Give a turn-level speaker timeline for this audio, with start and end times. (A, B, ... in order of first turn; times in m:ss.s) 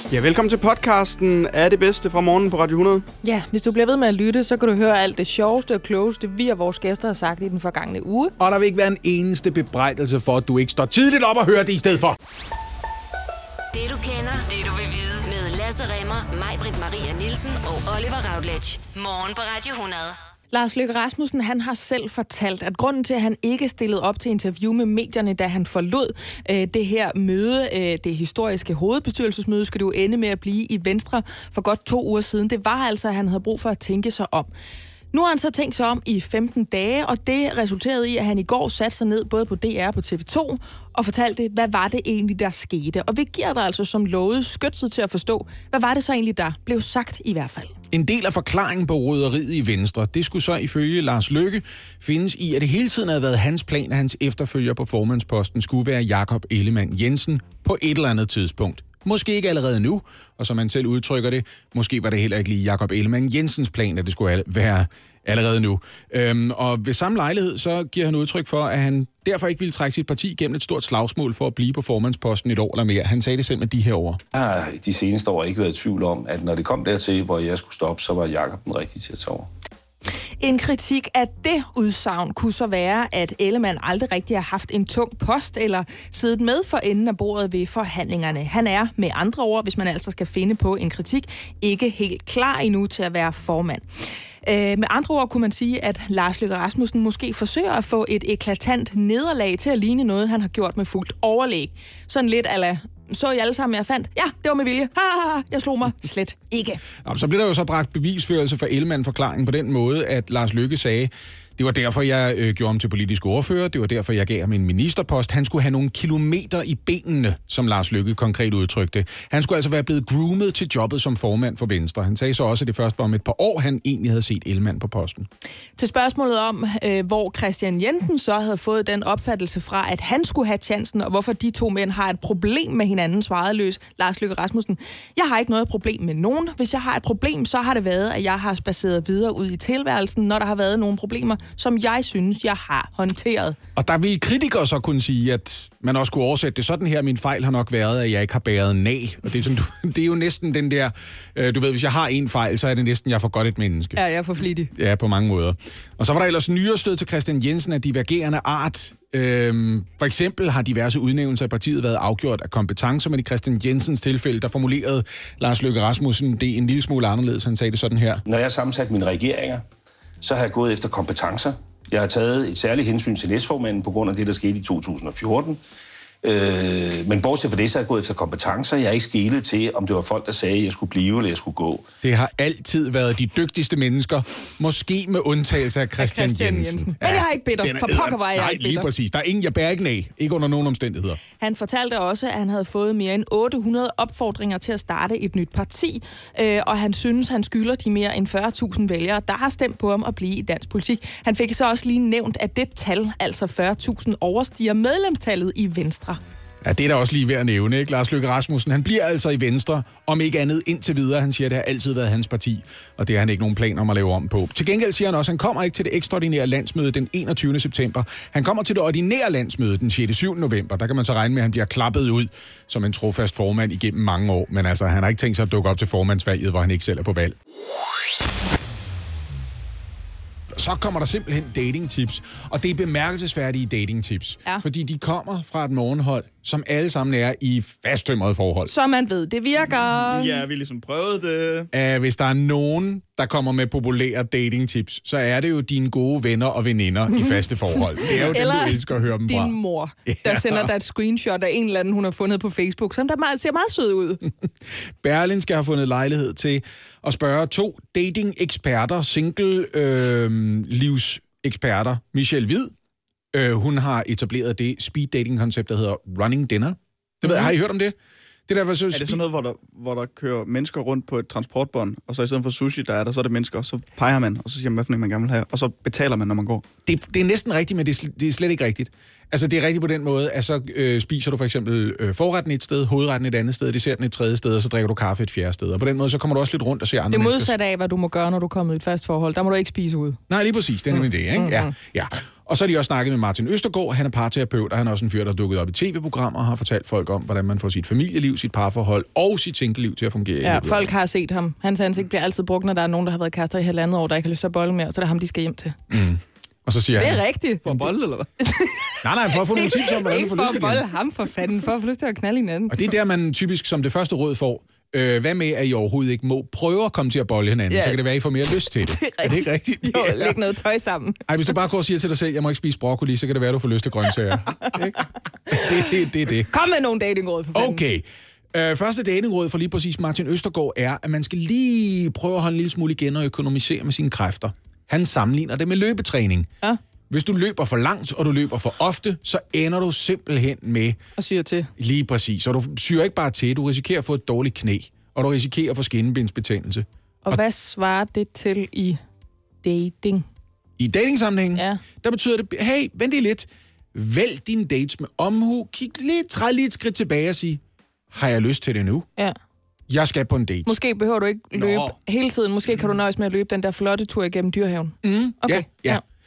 0:00.1-0:03.1 A
0:03.2-0:08.3 B
0:08.4-0:12.2 C
0:13.7-0:20.2 D
0:20.5-0:34.5 B
0:35.1-0:47.7 B
0:47.9-1:14.2 C
1:14.3-1:19.5 E
1:20.4-1:46.8 B
1:47.0-2:05.3 C
2:05.8-2:23.6 B
2:23.8-2:34.0 C
2:34.0-2:34.7 B
2:34.7-2:48.2 C
2:48.3-2:49.6 E
2:50.2-2:55.6 E
2:56.2-3:01.8 E
3:02.0-3:11.2 C
3:06.0-3:08.9 B
3:11.4-3:26.2 B
3:26.6-3:47.4 C
3:50.5-3:58.7 C
3:58.7-4:00.4 B
3:59.8-4:01.7 A
4:01.7-4:10.7 C
4:08.1-4:08.3 A
4:08.1-4:14.3 B
4:15.0-4:22.7 C
4:23.3-4:28.0 C
4:27.3-4:27.5 B
4:28.5-4:29.2 C
4:28.9-4:36.6 A
4:36.9-4:47.5 C
4:47.1-4:50.2 B
4:50.3-5:00.9 C
4:51.3-4:51.7 B
5:00.4-5:05.8 B
5:05.9-5:07.8 C
5:07.0-5:07.9 B
5:07.6-5:08.3 A
5:08.4-5:12.8 B
5:09.0-5:10.9 C
5:12.7-5:20.4 C
5:17.7-5:21.2 B
5:21.3-5:26.5 C
5:25.5-5:25.9 B
5:26.5-5:27.8 B
5:27.5-5:36.5 C
5:37.1-5:41.0 C
5:41.2-5:41.7 B
5:41.8-5:47.4 C
5:47.2-5:49.0 B
5:49.6-5:50.3 B
5:50.8-5:57.6 C
5:51.6-5:51.8 B
5:58.1-5:59.1 C
5:59.9-6:00.8 C
6:00.7-6:06.0 B
6:01.5-6:02.0 A
6:05.0-6:06.0 C